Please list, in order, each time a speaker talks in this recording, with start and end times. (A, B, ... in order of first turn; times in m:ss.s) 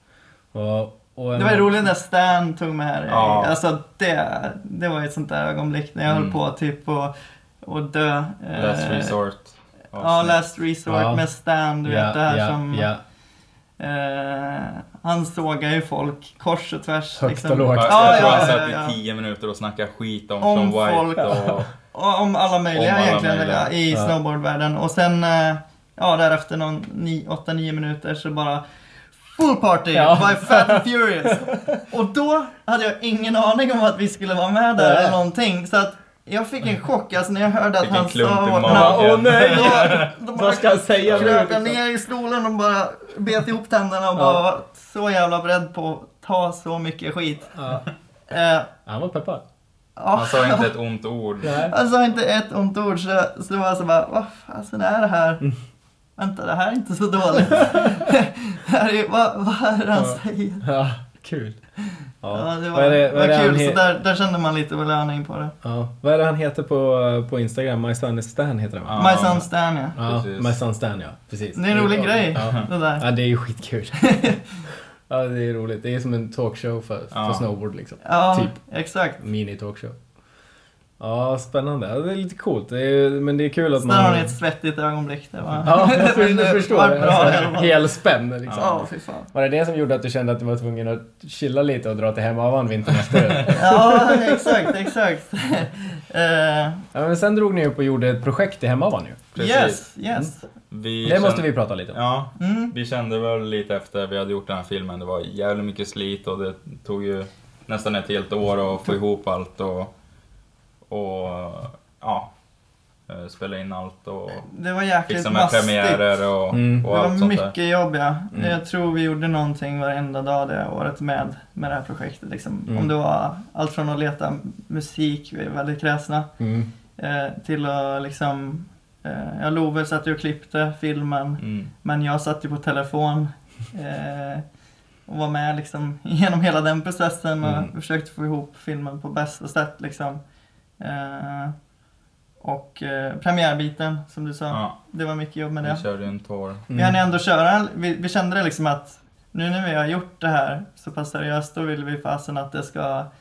0:00.5-0:01.8 A
0:01.3-0:09.2 B
0:03.1-0:03.6 C
0:06.0-0:06.4 C
0:08.5-0:10.5 C
0:10.0-0:13.1 B
0:10.8-0:13.0 A
0:13.8-0:19.0 B
0:17.2-0:18.6 A
0:17.7-0:21.9 C
0:20.4-0:48.7 B
0:22.7-0:23.7 C
0:29.9-0:31.8 A
0:34.8-0:35.2 A
0:37.8-0:40.2 C
0:38.6-0:41.8 A
0:40.8-0:41.4 C
0:44.1-0:44.4 A
0:47.5-0:47.8 A
0:48.8-0:49.4 A
0:50.0-0:50.7 B
0:50.1-0:51.6 C
0:51.4-0:51.8 A
0:51.6-0:55.6 B
0:56.1-1:00.6 B
0:59.9-1:03.8 A
1:02.0-1:05.6 B
1:05.6-1:09.4 A
1:08.8-1:10.6 C
1:09.0-1:10.0 B
1:09.9-1:20.1 A
1:11.5-1:13.2 B
1:12.4-1:12.6 C
1:14.1-1:14.5 B
1:17.1-1:17.4 C
1:18.0-1:19.2 B
1:21.0-1:24.4 A
1:23.8-1:27.9 B
1:25.6-1:34.5 A
1:28.4-1:29.3 B
1:28.5-1:28.9 C
1:33.5-1:36.8 B
1:36.9-1:39.3 A
1:39.3-1:39.9 C
1:39.4-1:40.4 B
1:40.7-1:50.0 C
1:41.0-1:42.0 A
1:42.4-1:42.7 B
1:50.9-1:52.4 C
1:53.0-1:57.5 C
1:54.3-1:56.1 B
1:56.5-1:56.8 A
1:56.8-2:06.4 B
2:06.4-2:06.7 A
2:06.9-2:14.5 B
2:11.4-2:11.7 C
2:15.0-2:20.2 B
2:17.4-2:17.7 A
2:20.8-2:21.6 B
2:22.4-2:33.1 B
2:24.5-2:24.9 C
2:25.6-2:26.7 C
2:26.7-2:27.0 A